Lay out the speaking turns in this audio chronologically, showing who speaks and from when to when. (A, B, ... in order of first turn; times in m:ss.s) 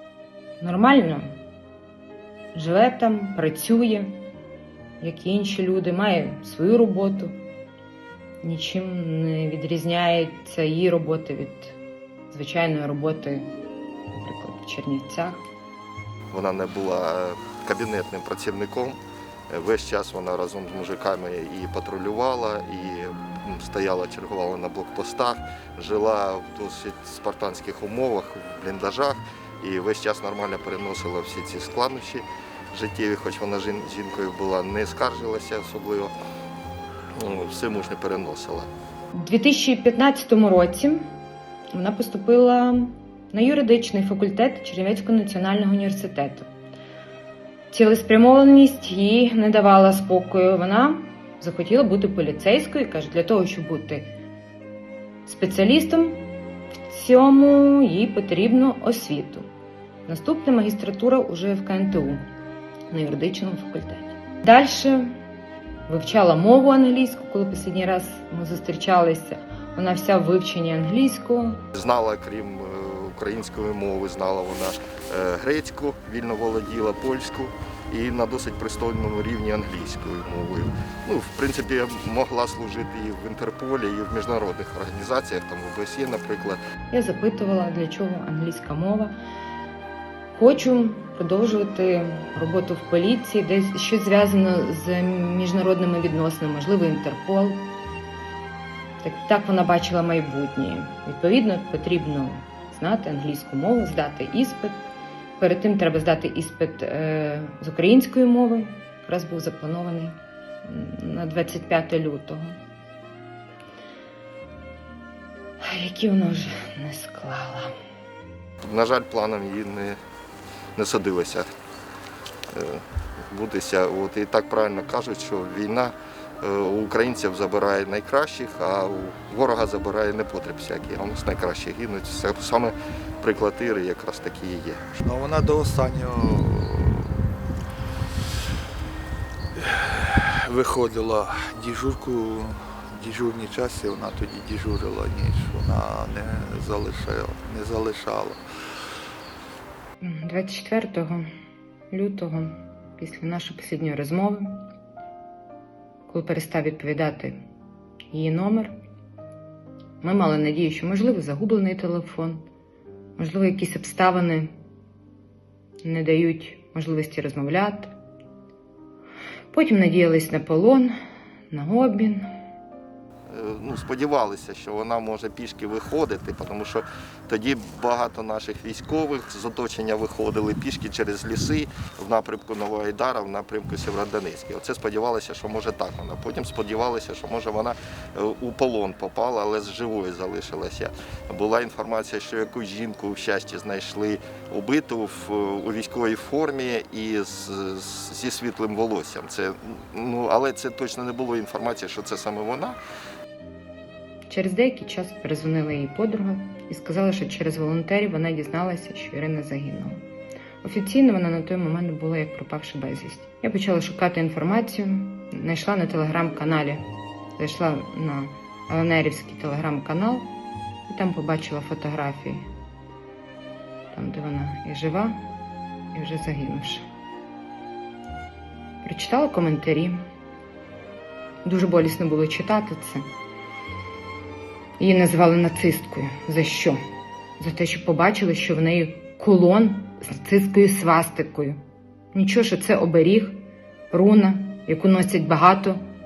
0:00.6-0:01.4 A
0:02.5-0:04.2 A
0:05.0-0:07.4 A
0:08.4-0:11.8 A
0:12.3-0:13.5 A
0:14.1-0:15.5 A
0:16.3-0:19.0 B
0:19.5-0:36.1 B
0:37.2-0:38.7 B
0:39.1-0:41.1 A
0:41.7-0:46.5 A
0:47.7-0:54.1 A
0:55.2-0:59.5 A
1:00.1-1:02.2 A
1:02.9-1:05.2 A
1:05.9-1:11.6 A
1:11.8-1:26.6 B
1:26.9-1:29.1 A
1:30.3-1:37.7 A
1:39.0-1:44.8 A
1:45.4-1:52.6 A
1:55.6-1:57.7 A
1:58.6-2:00.0 B
2:00.8-2:01.5 B
2:02.5-2:14.8 B
2:15.0-2:17.3 C
2:19.6-2:28.4 C
2:30.0-2:31.3 A
2:31.9-2:34.6 A
2:36.1-2:37.4 A
2:38.1-2:38.7 A
2:40.0-2:42.5 A
2:43.2-2:44.5 A
2:45.8-2:47.9 A
2:49.5-2:51.0 A
2:51.5-2:52.3 A
2:53.3-3:22.8 B
3:24.3-3:30.0 A
3:30.6-3:36.8 A
3:37.4-3:40.3 A
3:40.9-3:42.5 A
3:43.9-3:45.2 A
3:45.9-3:46.9 A
3:48.8-3:50.0 A
3:51.4-3:53.0 A
3:54.8-3:56.8 A
3:57.4-4:01.6 A
4:02.1-4:05.8 A